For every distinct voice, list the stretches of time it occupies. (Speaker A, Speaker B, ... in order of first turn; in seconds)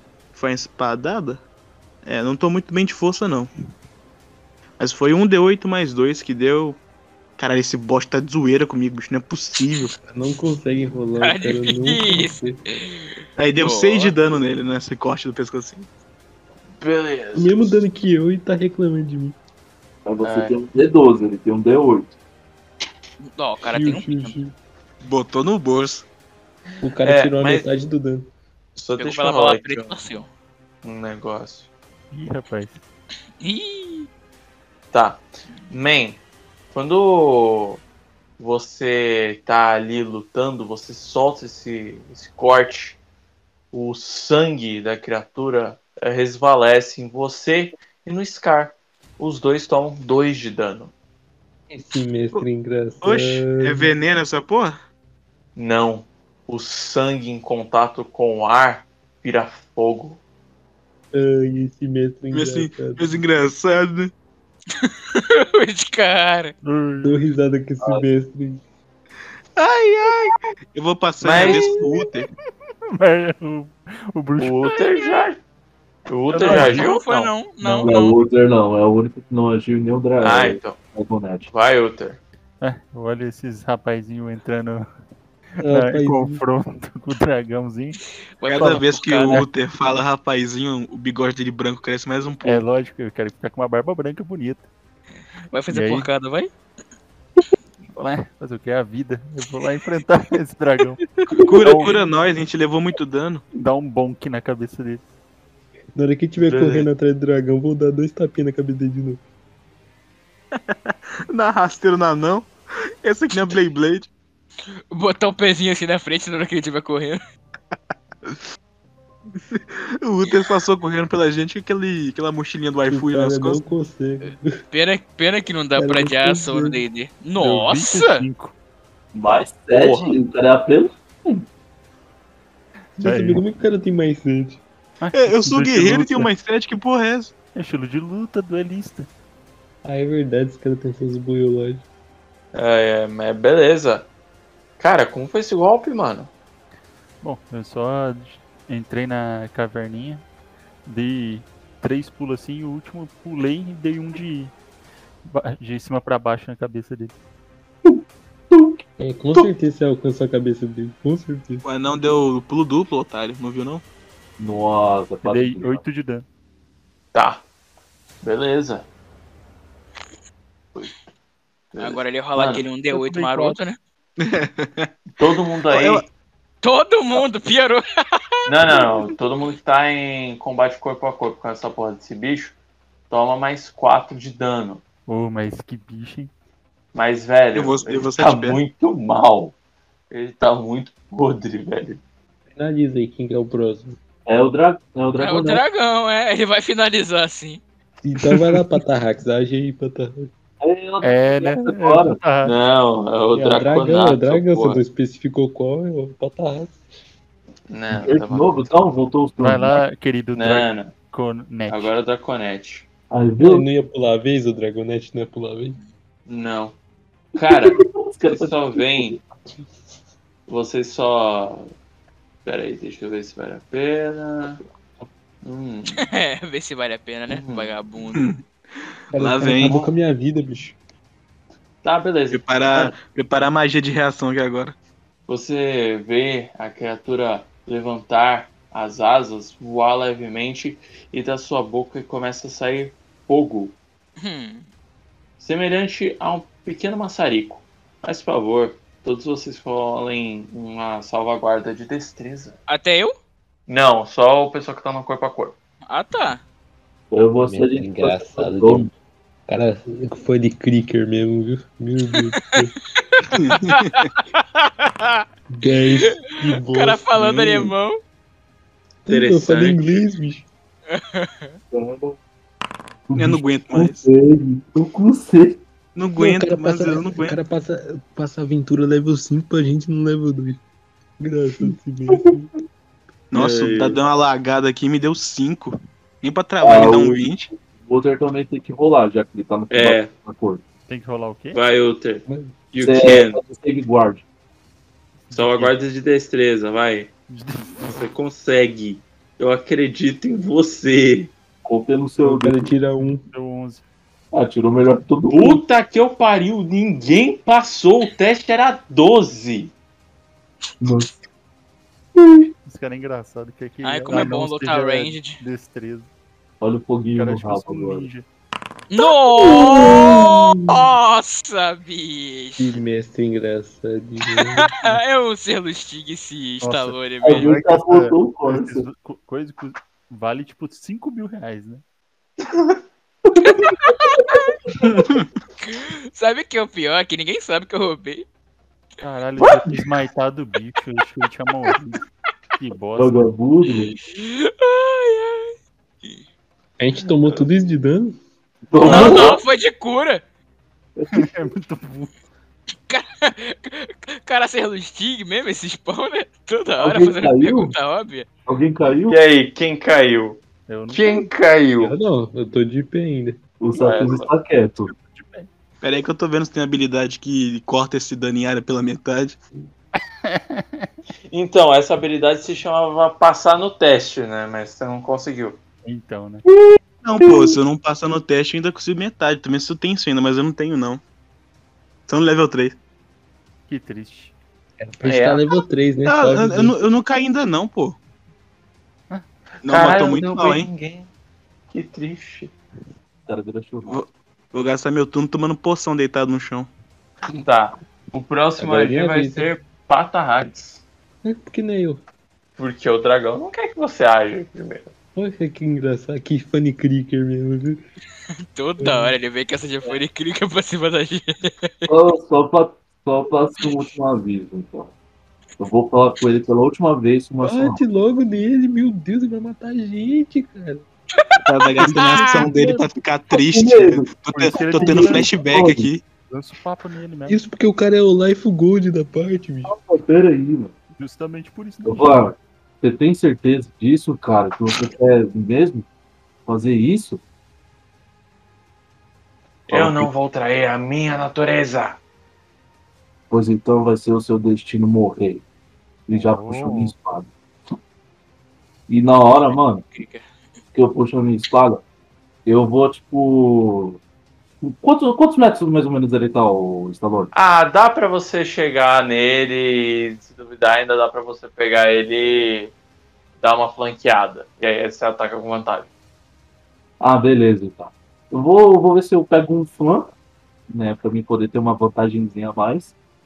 Speaker A: 0.3-1.4, 2.0-3.5, 4.8-6.8, 7.4-9.9, 13.4-15.9, 25.0-26.1, 53.0-54.8, 62.3-64.1, 69.5-72.3, 88.5-92.6, 101.3-103.4, 110.5-112.5, 113.0-114.1, 119.4-123.6, 135.1-137.3, 161.6-163.8, 174.2-174.9, 175.7-176.0, 187.5-188.6, 228.1-228.4, 229.1-229.9, 232.3-234.7, 263.3-263.9, 273.1-274.1, 275.9-277.4, 283.3-287.5, 334.9-335.2, 365.8-369.4, 377.0-381.0, 382.1-382.8, 386.1-388.0, 389.6-390.7, 393.9-396.7, 421.4-426.0
Speaker B: 10.1-12.6, 17.3-19.4, 23.6-24.5, 26.8-28.3, 51.7-53.9, 61.1-63.1, 67.0-68.6, 85.6-86.4, 105.9-109.2, 122.9-124.6, 125.8-126.8, 133.0-134.6, 139.8-141.8, 159.0-161.6, 192.5-194.0, 198.0-200.3, 203.3-206.8, 213.4-215.8, 229.1-230.8, 257.4-258.9, 259.5-262.7, 265.5-267.7, 269.1-270.4, 276.2-280.6, 281.2-282.5, 292.3-292.5, 302.2-303.2, 322.6-324.7, 346.8-348.2, 361.8-363.4, 384.8-386.7, 398.6-399.5, 401.2-402.0, 405.1-407.8, 408.8-409.1, 417.4-420.8, 427.3-429.7
Speaker C: 11.2-14.1, 23.2-24.4, 29.0-30.3, 33.4-34.1, 64.8-66.5, 76.3-78.2, 88.4-89.4, 95.5-96.5, 114.9-117.2, 124.7-128.3, 171.8-173.8, 176.6-177.8, 195.2-197.6, 226.0-228.3, 244.2-244.7, 252.7-253.1, 255.9-256.4, 263.0-265.2, 266.6-268.0, 270.9-271.6, 313.8-315.4, 318.9-322.8, 324.8-327.5, 333.4-334.4, 335.6-338.2, 343.7-346.2, 348.8-350.2, 352.9-358.3, 408.5-411.9, 421.1-422.4, 449.3-450.2
Speaker D: 16.8-17.8, 20.2-20.6, 27.0-27.7, 28.8-29.9, 30.8-31.7, 34.9-36.2, 36.7-37.8, 38.4-43.0, 43.7-50.9, 55.5-60.2, 71.2-71.7, 74.4-75.4, 76.1-77.3, 80.2-80.8, 81.5-82.2, 106.5-106.8, 129.7-130.2, 142.5-144.1, 144.8-146.3, 167.1-167.4, 168.2-168.9, 171.7-172.6, 175.2-176.1, 178.4-182.5, 183.1-184.8, 186.9-189.5, 190.1-192.0, 202.4-204.8, 207.7-208.7, 210.3-210.9, 211.7-212.9, 216.3-216.8, 217.4-219.2, 220.5-221.7, 222.4-224.6, 225.4-226.0, 227.3-227.7, 231.8-232.9, 235.3-243.8, 245.4-252.6, 253.7-255.6, 269.1-270.0, 283.3-284.0, 289.7-290.1, 291.5-293.4, 295.3-297.1, 297.8-301.3, 305.3-309.7, 348.8-349.4, 359.1-361.9, 363.7-364.3, 371.3-375.6, 385.0-385.4, 389.6-391.1, 391.7-392.5, 397.3-400.8, 402.6-404.9, 439.7-442.0, 457.3-462.7, 463.4-465.9
Speaker E: 20.0-22.1, 77.6-81.5, 129.1-131.4, 157.8-158.8, 164.4-165.8, 194.2-195.6, 200.6-202.2, 207.9-209.8, 213.1-213.7, 217.3-219.2, 257.1-258.9, 271.7-272.2, 273.1-275.6, 286.6-290.6, 292.8-294.2, 301.6-302.7, 304.3-305.6, 310.8-311.1, 316.6-318.1, 319.5-320.2, 327.2-328.9, 333.3-333.7, 342.9-343.9, 348.7-349.4, 351.0-351.3, 356.8-357.7, 358.4-359.2, 363.6-364.9, 393.3-394.0, 411.9-414.9, 415.6-417.8, 423.4-424.1, 424.7-425.9, 429.6-430.7, 431.8-435.9, 436.4-437.2, 439.7-440.1, 443.3-445.4, 446.1-447.3, 448.9-449.8, 450.7-451.8, 452.4-454.0, 454.6-457.3, 467.0-470.1, 470.7-472.9
Speaker F: 32.1-32.8, 66.6-67.2, 73.0-74.9, 76.3-76.9, 82.6-84.8, 85.5-88.0, 92.4-94.7, 95.7-96.1, 98.0-101.0, 101.6-101.9, 103.5-105.0, 127.4-128.5, 133.0-133.4, 135.0-136.3, 137.5-139.1, 147.2-150.2, 150.8-154.5, 155.2-157.1, 165.2-166.2, 172.9-173.6, 185.1-186.3, 201.0-202.6, 209.4-211.9, 290.9-291.6, 295.3-295.7, 297.3-298.0, 303.0-303.8, 312.6-316.1, 317.1-318.2, 326.6-331.8, 339.0-342.0, 342.6-343.2, 351.1-352.1, 360.7-361.3, 364.9-365.5, 370.2-370.9, 375.8-376.4, 383.7-384.3, 421.8-422.9, 424.2-425.5, 426.1-427.4, 430.9-432.3, 446.1-446.9